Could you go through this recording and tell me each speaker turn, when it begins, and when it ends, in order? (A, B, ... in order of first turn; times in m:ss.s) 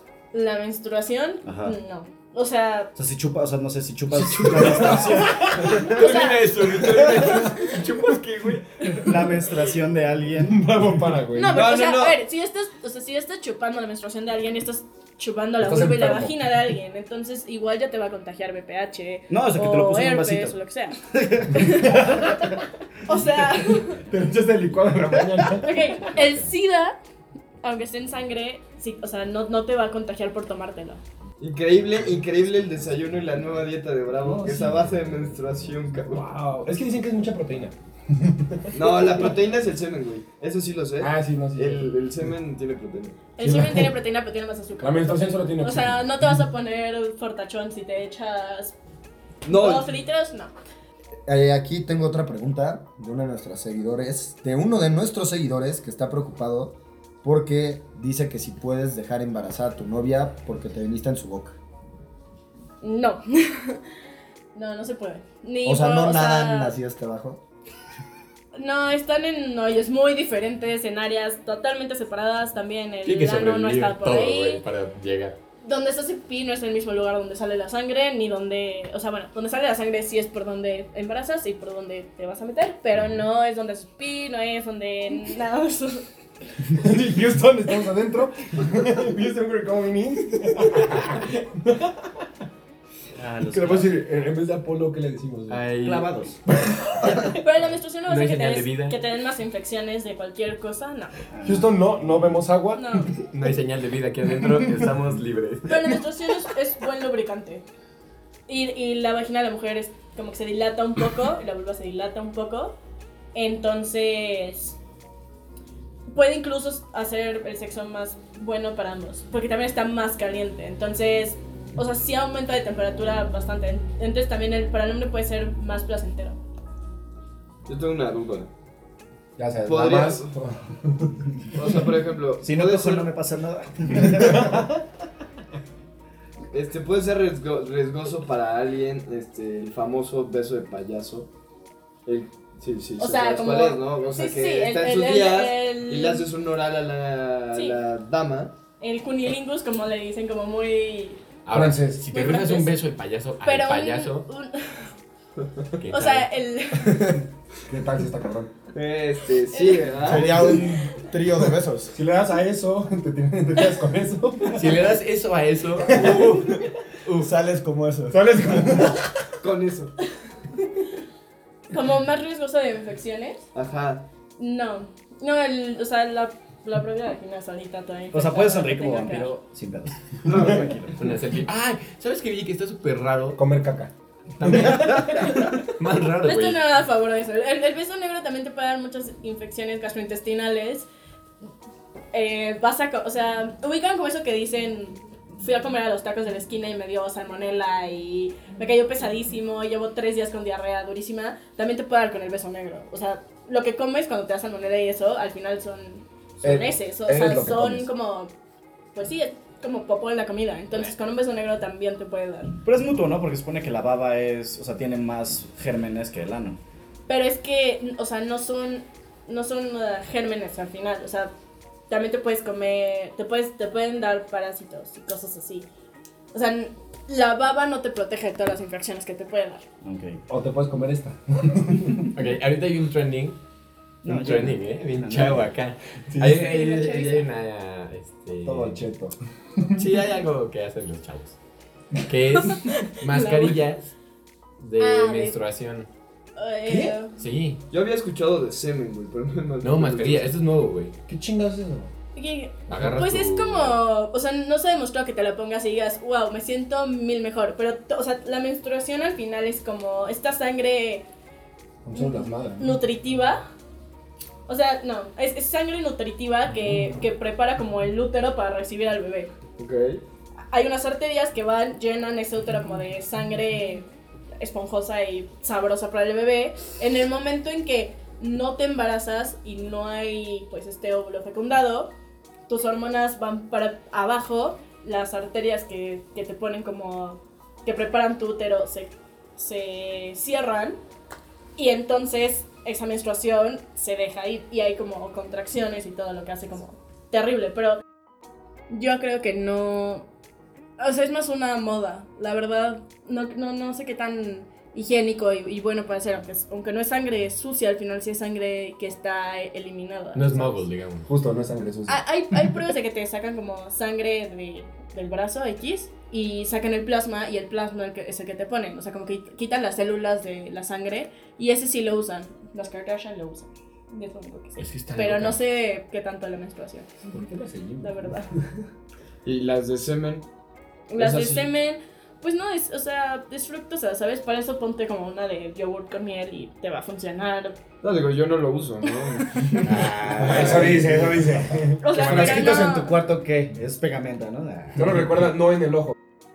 0:00.3-0:02.9 A
0:01.4-0:01.8 B
0:03.0-0:06.0 B
0:04.1-0:09.0 C
0:04.6-0:05.9 D
0:05.8-0:06.4 A
0:07.0-0:07.3 D
0:09.0-0:10.6 B
0:10.4-0:11.6 D
0:11.3-0:22.4 A
0:11.7-0:12.2 E
0:15.6-0:16.6 D
0:19.3-0:22.0 B
0:21.7-0:22.5 D
0:23.0-0:24.0 A
0:23.9-0:26.2 D
0:25.0-0:25.6 B
0:25.6-0:27.0 A
0:27.6-0:31.0 A
0:31.4-0:36.3 E
0:34.3-0:34.9 D
0:36.1-0:39.3 D
0:38.7-0:43.3 E
0:41.0-0:42.0 D
0:43.4-0:48.8 A
0:43.4-0:44.0 D
0:44.8-0:46.4 D
0:49.4-0:49.9 E
0:49.4-0:50.5 A
0:51.3-1:01.6 F
1:02.8-1:03.8 A
1:04.6-1:06.8 A
1:05.6-1:07.4 F
1:08.6-1:14.6 A
1:13.0-1:15.4 C
1:15.6-1:26.1 A
1:23.0-1:23.2 C
1:26.7-1:32.2 D
1:33.1-1:34.0 B
1:33.4-1:35.7 D
1:35.5-1:36.1 C
1:35.8-1:36.4 B
1:37.2-1:41.2 A
1:38.1-1:39.0 C
1:41.3-1:42.3 B
1:41.4-1:43.2 D
1:42.8-1:43.1 A
1:43.3-1:46.0 C
1:45.7-1:47.6 A
1:48.5-1:52.8 A
1:53.3-1:54.8 A
1:56.1-2:06.4 A
2:07.6-2:08.5 E
2:09.4-2:11.7 D
2:09.6-2:10.3 E
2:11.6-2:13.1 E
2:12.4-2:14.7 B
2:14.1-2:14.8 D
2:16.5-2:21.3 E
2:22.1-2:28.5 E
2:23.0-2:26.3 A
2:27.5-2:27.8 A
2:28.8-2:31.2 A
2:31.4-2:34.3 C
2:31.5-2:32.0 D
2:32.1-2:32.8 A
2:33.4-2:34.9 A
2:35.8-2:36.3 C
2:35.9-2:37.2 A
2:37.7-2:38.5 D
2:38.7-2:40.5 E
2:39.5-2:39.9 A
2:40.0-2:42.0 F
2:40.3-2:40.7 D
2:41.9-2:44.7 D
2:44.5-2:47.3 C
2:45.9-2:46.4 D
2:47.2-2:48.4 F
2:48.1-2:49.3 D
2:49.4-2:49.9 E
2:51.7-2:53.4 A
2:53.6-2:54.0 E
2:54.4-2:59.4 A
2:58.1-3:01.2 B
3:00.3-3:00.9 E
3:01.0-3:03.4 C
3:03.4-3:03.9 D
3:04.4-3:06.6 C
3:04.4-3:05.5 D
3:04.5-3:05.0 B
3:06.2-3:10.9 A
3:12.1-3:28.3 A
3:26.4-3:27.9 D
3:29.0-3:32.5 A
3:32.6-3:36.6 B
3:37.1-3:41.3 A
3:41.9-3:45.7 A
3:46.3-3:49.6 A
3:49.8-3:50.2 B
3:50.3-3:52.1 D
3:52.1-3:53.4 C
3:54.0-3:55.5 B
3:54.1-3:58.8 C
3:56.1-3:56.5 D
3:56.2-3:57.3 A
3:58.4-3:59.9 D
3:59.8-4:01.4 C
4:02.0-4:03.9 C
4:02.4-4:03.6 A
4:04.6-4:05.9 C
4:04.8-4:05.4 A
4:06.4-4:07.2 A
4:06.7-4:07.0 D
4:07.2-4:07.6 C
4:07.7-4:10.4 E
4:09.6-4:11.0 C
4:11.1-4:11.9 D
4:12.1-4:21.1 A
4:12.7-4:13.8 C
4:21.8-4:22.7 D
4:21.9-4:23.4 A
4:24.5-4:29.3 A
4:29.6-4:30.0 E
4:30.5-4:33.9 A
4:34.4-4:41.9 A
4:42.5-4:50.8 A
4:51.6-4:57.8 A
4:58.7-5:00.1 A
5:00.8-5:10.6 A
5:10.2-5:11.1 C
5:11.1-5:12.5 D
5:11.9-5:27.1 A
5:24.6-5:25.4 C
5:27.1-5:28.2 D
5:27.8-5:28.3 A
5:29.2-5:30.3 E
5:30.9-5:37.6 A
5:31.0-5:31.5 E
5:37.8-5:40.9 E
5:39.6-5:45.3 B
5:40.2-5:42.8 D
5:41.8-5:42.9 A
5:44.8-5:45.9 D